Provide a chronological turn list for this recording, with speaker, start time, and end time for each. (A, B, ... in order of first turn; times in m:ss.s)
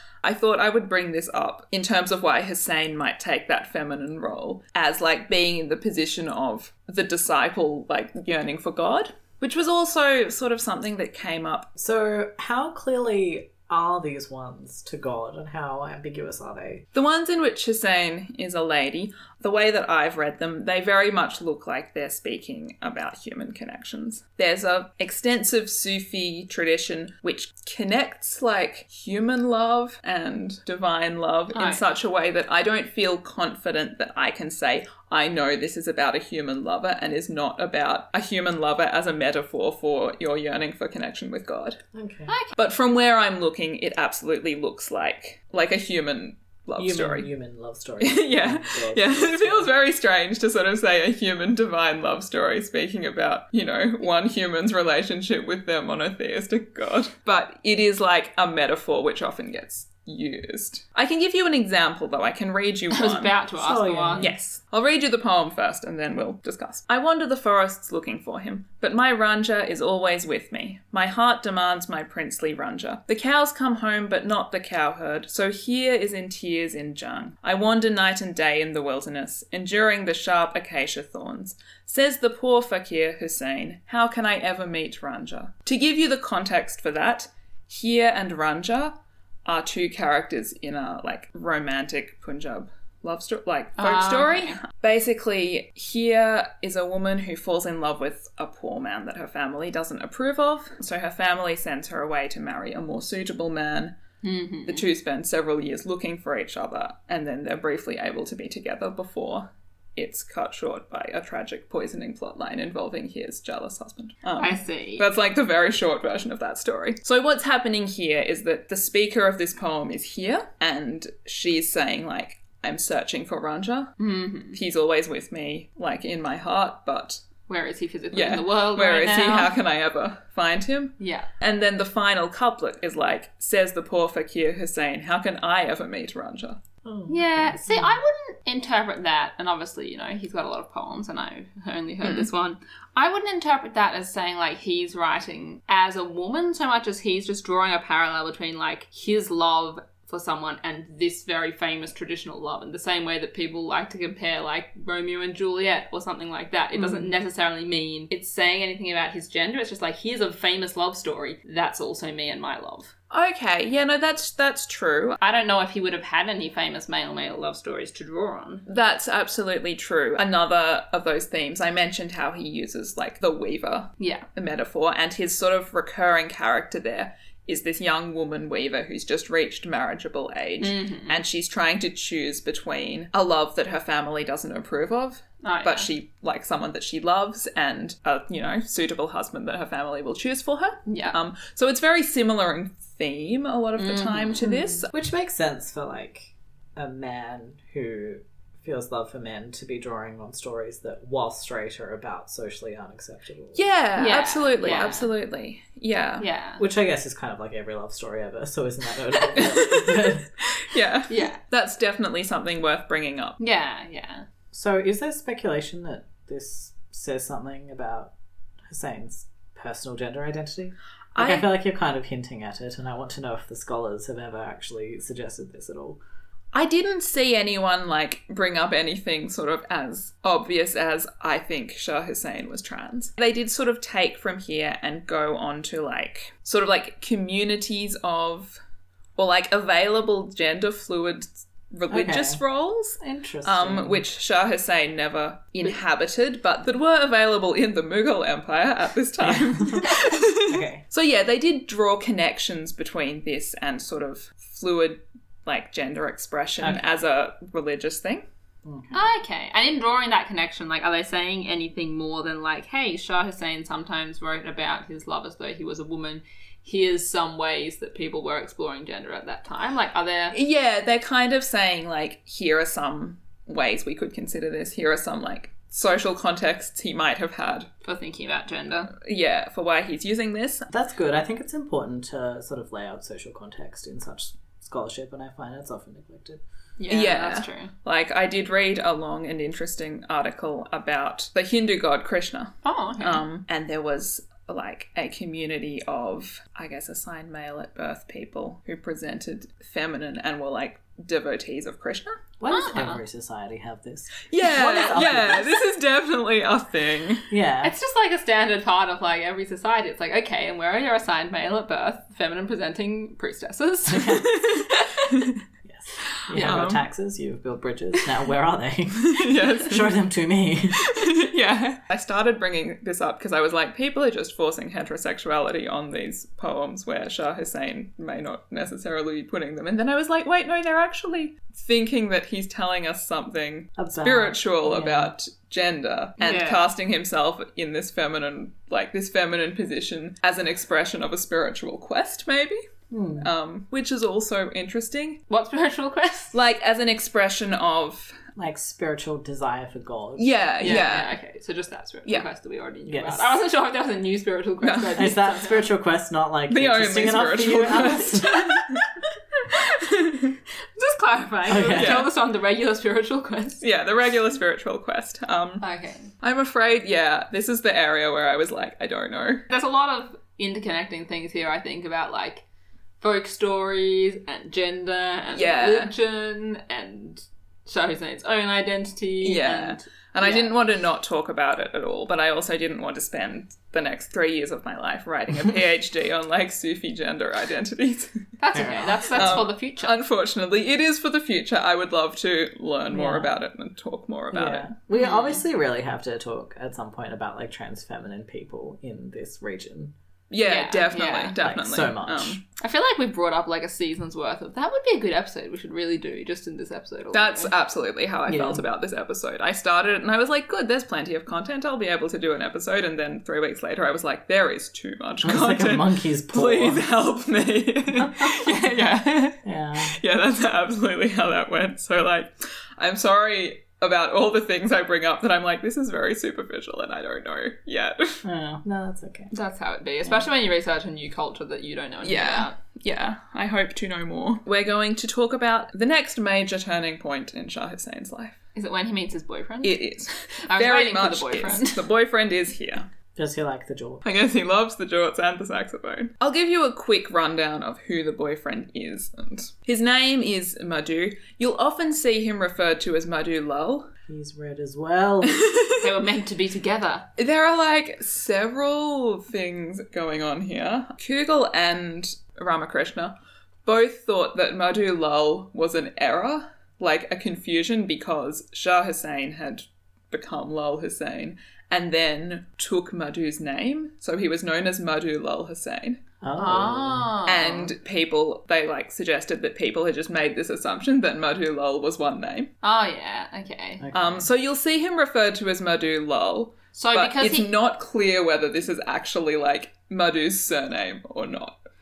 0:00.2-0:11.7 A
0:11.7-0:16.8 B
0:16.9-0:41.8 A
0:31.5-0:31.8 C
0:41.9-0:42.3 B
0:42.3-0:42.5 C
0:42.5-0:47.3 A
0:46.8-0:49.7 B
0:48.0-1:03.3 A
1:02.9-1:04.3 C
1:03.6-1:04.3 B
1:04.2-1:44.0 A
1:33.8-1:34.6 C
1:44.2-1:44.9 C
1:44.6-2:03.9 A
1:54.4-1:55.0 C
2:04.0-2:04.6 C
2:04.5-2:07.2 A
2:07.5-2:09.5 C
2:08.1-2:16.6 A
2:11.0-2:11.3 C
2:16.8-2:18.0 B
2:17.1-2:42.9 C
2:22.0-2:22.3 A
2:36.7-2:37.1 B
2:43.1-2:45.2 A
2:45.2-2:48.6 C
2:48.6-3:14.9 A
2:54.0-2:54.2 C
3:00.6-3:01.2 C
3:05.4-3:05.9 C
3:10.9-3:11.2 C
3:13.8-3:14.7 C
3:14.9-3:23.6 B
3:23.5-3:26.3 A
3:24.0-3:25.1 C
3:26.2-3:26.6 C
3:26.6-3:30.3 B
3:29.4-3:33.4 A
3:31.1-3:31.4 C
3:33.4-3:34.2 C
3:34.5-3:38.1 B
3:38.6-3:46.0 B
3:41.1-3:41.5 A
3:46.5-3:58.6 A
3:59.2-4:18.2 A
4:01.9-4:02.4 B
4:03.0-4:04.0 B
4:09.2-4:10.8 B
4:16.6-4:17.0 B
4:18.6-4:19.0 B
4:18.9-4:30.4 C
4:30.3-4:37.7 A
4:37.8-4:38.9 C
4:38.9-4:40.7 A
4:40.7-4:46.4 B
4:46.8-4:47.7 C
4:46.9-5:02.2 A
4:52.6-4:53.2 C
5:02.4-5:05.5 B
5:02.5-5:03.0 C
5:04.3-5:07.3 A
5:07.3-5:07.7 B
5:07.6-5:15.1 C
5:13.9-5:14.3 B
5:14.0-5:15.4 A
5:15.6-5:20.8 B
5:16.3-5:16.8 A
5:16.3-5:16.6 C
5:18.9-5:19.9 A
5:20.8-5:42.6 A
5:33.8-5:35.1 B
5:36.2-5:36.7 C
5:42.9-5:43.3 B
5:43.2-5:45.2 A
5:45.3-5:46.3 C
5:46.3-5:48.2 A
5:48.4-5:50.8 B
5:50.2-5:51.1 A
5:50.6-5:55.7 C
5:52.9-5:53.4 B
5:54.6-5:55.0 A
5:54.9-5:58.6 B
5:56.5-5:58.8 A
5:59.5-6:00.4 A
6:00.7-6:03.6 C
6:01.5-6:02.1 B
6:01.7-6:02.1 A
6:03.6-6:05.6 A
6:05.6-6:06.1 C
6:06.2-6:09.4 A
6:09.5-6:12.4 C
6:13.0-6:20.5 C
6:15.3-6:15.9 A
6:19.2-6:28.3 A
6:28.4-6:30.0 C
6:28.5-6:29.4 B
6:29.1-6:34.7 A
6:32.9-6:33.3 B
6:34.3-6:39.9 B
6:35.0-6:35.4 C
6:40.3-6:42.4 A
6:40.4-6:41.4 C
6:41.4-6:42.4 B
6:42.6-6:47.5 C
6:47.1-7:08.2 A
6:48.3-6:48.6 B
6:55.2-6:56.8 B
6:58.0-6:58.7 B
6:59.4-7:00.0 B
7:08.2-7:09.3 B
7:09.3-7:12.5 C
7:12.0-7:18.4 A
7:18.5-7:19.8 C
7:19.6-7:22.8 A
7:20.4-7:21.8 C
7:23.2-7:24.0 B
7:24.0-7:33.9 A
7:34.1-7:35.4 B
7:35.3-7:35.8 A
7:35.8-7:37.1 C
7:37.2-7:43.1 A
7:43.6-7:56.0 A
7:56.2-7:57.1 B
7:56.4-7:57.7 C
7:57.2-8:02.5 A
8:02.6-8:03.8 C
8:03.8-8:04.3 B
8:03.9-8:11.7 A
8:06.7-8:07.5 C